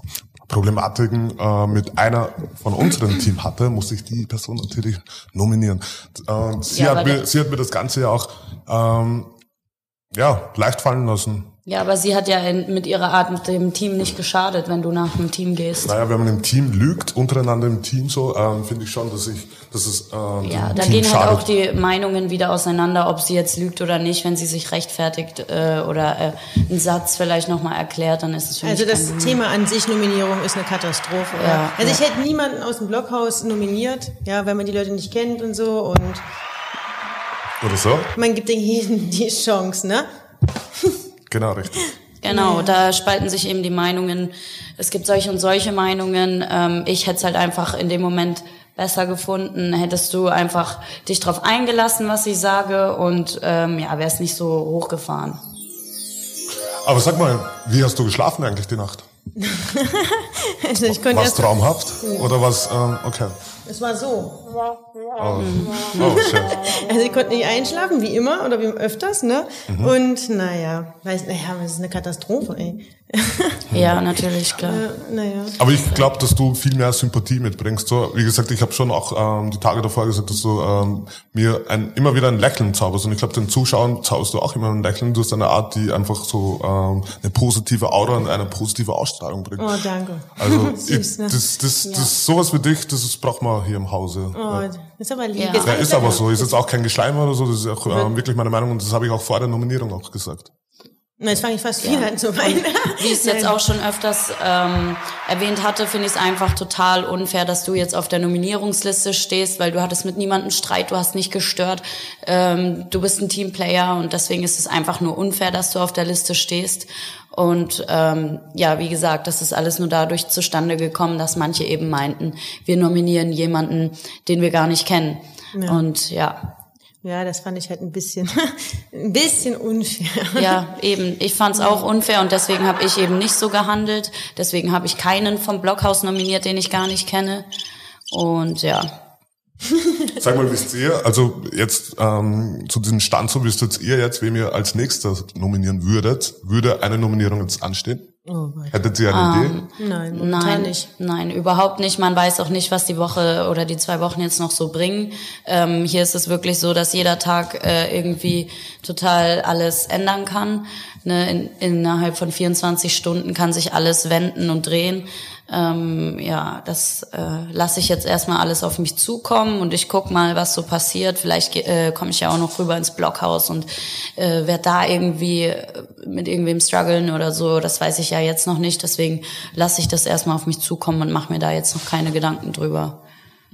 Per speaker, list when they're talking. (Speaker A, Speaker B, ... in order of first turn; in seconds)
Speaker A: 0.5-9.3, 10.1-11.5, 15.8-21.5, 37.6-38.1, 41.3-41.8, 56.8-59.1, 60.8-63.3, 65.2-66.6, 69.7-69.9, 73.7-74.0, 75.6-89.8, 90.4-94.7, 95.6-100.5, 140.2-148.1, 148.7-149.6
Speaker B: 6.7-7.3, 11.7-15.9, 20.4-29.4, 31.4-32.0, 42.2-55.4, 65.4-66.3, 73.7-74.8, 91.8-92.1, 95.3-95.8, 101.8-126.4, 130.3-137.5, 138.1-138.9, 149.1-183.0
Speaker C: 28.6-36.2, 38.1-40.1, 42.3-42.8, 59.4-62.3, 63.7-64.6, 66.0-73.7, 74.6-75.6, 89.6-91.4, 94.3-96.6, 97.9-98.1, 101.2-103.6, 125.5-125.9, 127.0-130.6, 131.5-131.9, 148.3-148.7, 149.8-150.9